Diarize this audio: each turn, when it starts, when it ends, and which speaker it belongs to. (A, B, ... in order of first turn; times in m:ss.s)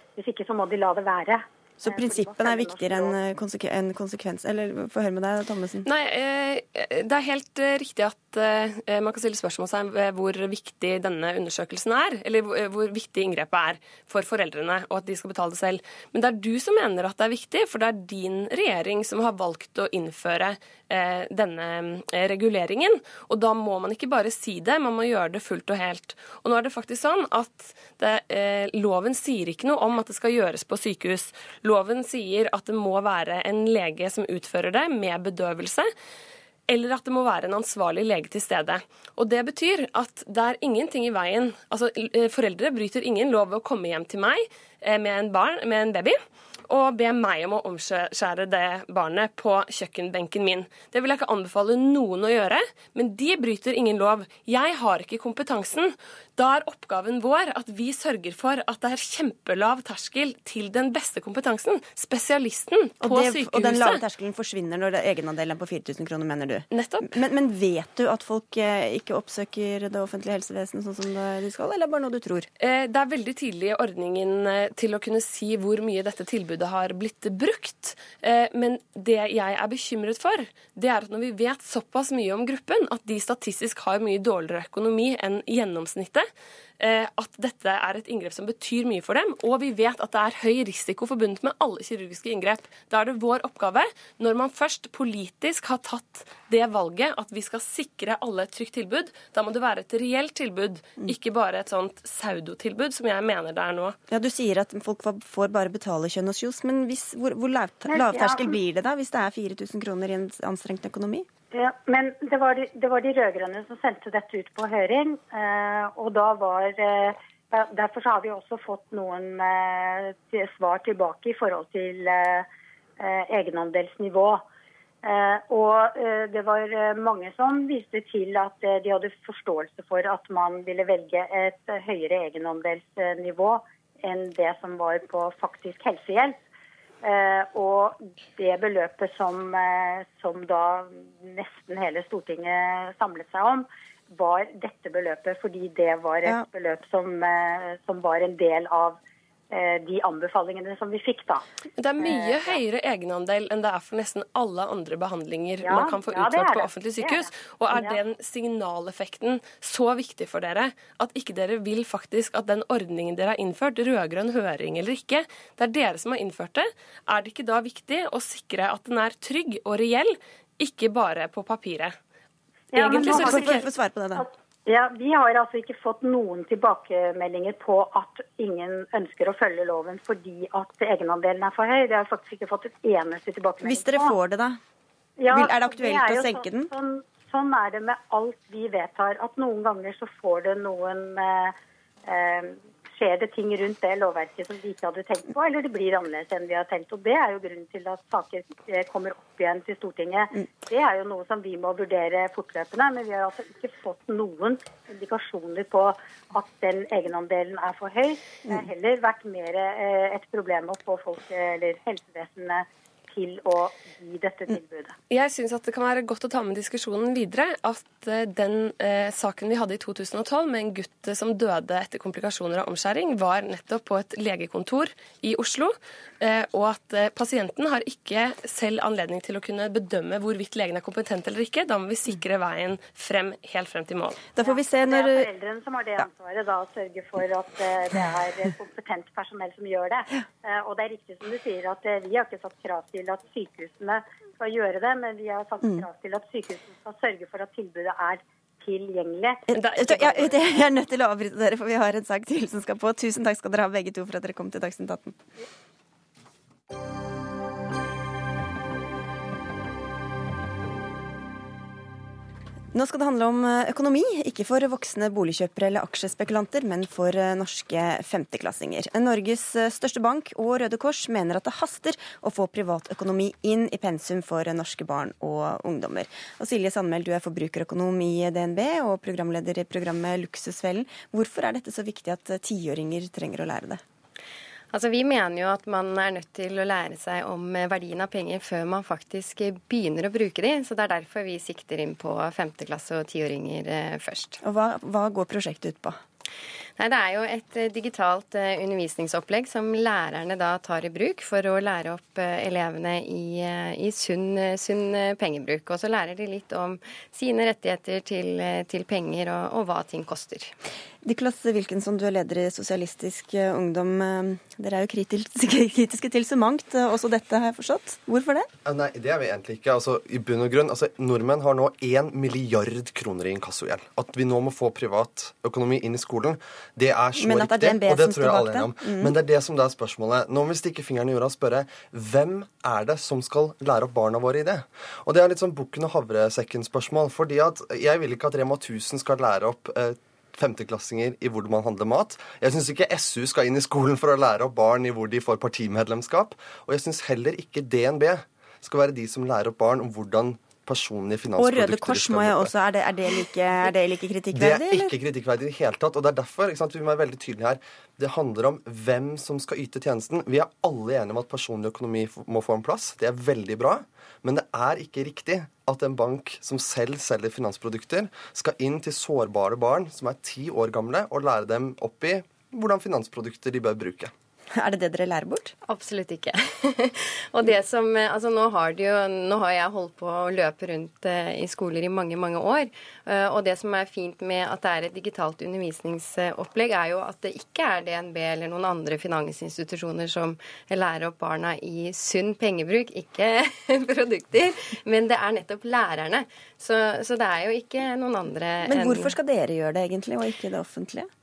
0:00.2-0:03.2 A
0:01.8-0:05.8 B
0:05.8-0:35.9 C
0:36.7-1:04.0 C
1:03.0-1:12.5 B
1:06.7-1:07.2 C
1:12.6-1:26.3 C
1:26.8-1:44.0 C
1:44.1-1:51.3 B
1:47.9-1:48.6 A
1:51.5-2:02.5 A
2:03.0-2:04.4 A
2:05.0-2:16.4 A
2:17.0-2:29.0 A
2:29.5-2:31.4 A
2:31.8-2:52.0 C
2:32.0-2:32.6 A
2:35.6-2:38.0 A
2:52.7-2:53.6 C
2:52.7-2:53.6 A
2:52.8-2:54.2 B
2:54.2-3:04.1 A
3:03.6-3:04.6 B
3:05.2-3:11.6 A
3:05.3-3:06.7 B
3:12.1-3:35.0 A
3:35.1-3:54.3 C
3:54.4-3:55.3 B
3:54.4-4:09.4 A
4:09.5-4:15.2 B
4:09.6-4:10.4 C
4:22.7-4:43.8 B
4:44.7-4:54.4 D
4:54.4-4:56.0 B
4:56.8-5:10.6 D
5:11.0-5:18.5 B
5:18.6-5:52.5 E
5:27.2-5:29.2 B
5:51.4-5:55.0 B
5:54.3-6:14.1 E
6:14.5-6:15.5 B
6:15.7-6:39.1 D
6:38.7-6:41.1 B